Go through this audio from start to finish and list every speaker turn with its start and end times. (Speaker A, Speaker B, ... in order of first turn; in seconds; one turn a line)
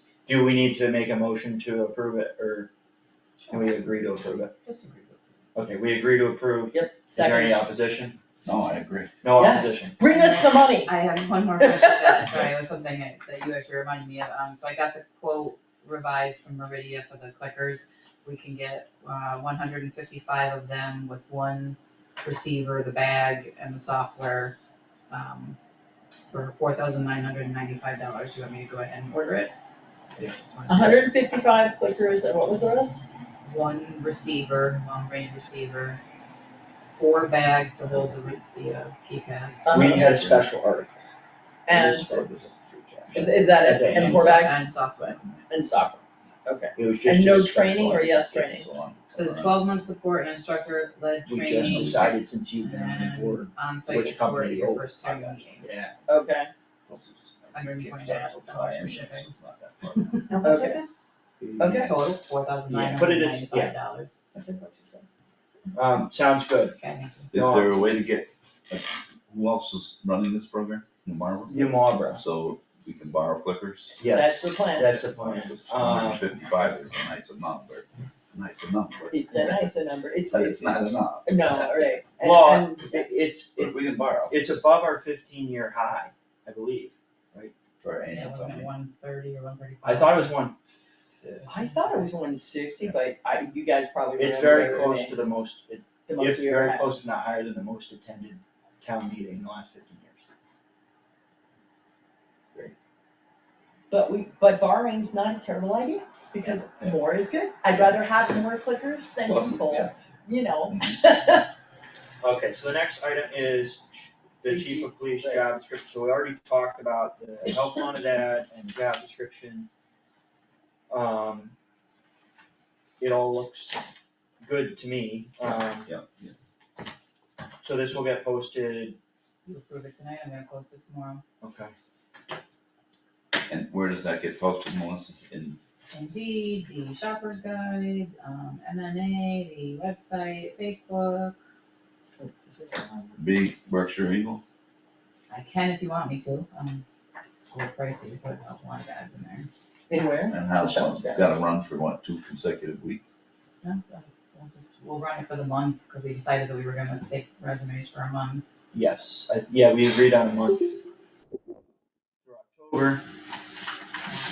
Speaker A: 0.2-2.7
Speaker B: 3.4-3.9
Speaker A: 3.5-4.5
Speaker B: 4.6-5.4
Speaker A: 5.5-8.2
Speaker C: 6.7-7.6
Speaker D: 8.4-9.1
Speaker A: 9.2-9.9
Speaker C: 9.3-10.9
Speaker B: 10.0-24.6
Speaker C: 11.6-12.3
Speaker B: 25.1-25.6
Speaker B: 26.3-29.5
Speaker B: 30.2-31.1
Speaker C: 30.7-33.0
Speaker B: 33.4-36.0
Speaker B: 36.9-40.1
Speaker C: 39.6-40.2
Speaker A: 39.7-41.0
Speaker D: 40.1-40.4
Speaker C: 41.7-42.1
Speaker A: 41.7-44.4
Speaker D: 41.8-42.6
Speaker C: 43.1-44.6
Speaker B: 44.0-45.3
Speaker D: 45.0-45.4
Speaker C: 45.5-48.7
Speaker A: 46.8-47.9
Speaker D: 47.6-49.6
Speaker B: 49.1-52.0
Speaker A: 51.3-55.9
Speaker D: 51.6-52.2
Speaker B: 52.6-55.7
Speaker C: 56.1-56.5
Speaker D: 56.9-60.1
Speaker B: 57.5-59.3
Speaker B: 59.9-60.9
Speaker C: 60.4-60.9
Speaker D: 61.4-61.8
Speaker C: 61.6-62.0
Speaker B: 61.7-64.2
Speaker A: 62.7-63.7
Speaker C: 64.3-65.0
Speaker A: 65.7-66.8
Speaker B: 66.8-67.3
Speaker A: 67.3-67.8
Speaker D: 67.3-74.0
Speaker A: 71.5-72.2
Speaker A: 74.0-76.3
Speaker C: 74.1-75.0
Speaker D: 75.0-79.7
Speaker C: 79.1-83.0
Speaker D: 80.3-81.3
Speaker A: 82.2-87.5
Speaker D: 83.6-84.3
Speaker D: 87.8-88.7
Speaker B: 88.1-90.3
Speaker A: 89.8-90.6
Speaker A: 91.2-91.5
Speaker C: 91.5-95.2
Speaker A: 94.1-100.2
Speaker C: 96.1-96.9
Speaker C: 103.9-111.5
Speaker A: 112.2-119.7
Speaker C: 114.4-115.4
Speaker A: 120.9-121.5
Speaker A: 123.0-123.8
Speaker A: 124.4-125.9
Speaker D: 125.8-126.3
Speaker A: 127.6-129.0
Speaker B: 129.4-131.2
Speaker A: 131.4-131.7
Speaker D: 133.5-135.6
Speaker B: 135.9-141.3
Speaker C: 142.2-143.2
Speaker D: 143.2-144.4
Speaker B: 145.3-146.8
Speaker B: 147.4-149.5
Speaker C: 149.9-151.3
Speaker D: 150.3-153.0
Speaker B: 153.6-158.5
Speaker A: 158.7-160.7
Speaker A: 162.2-163.0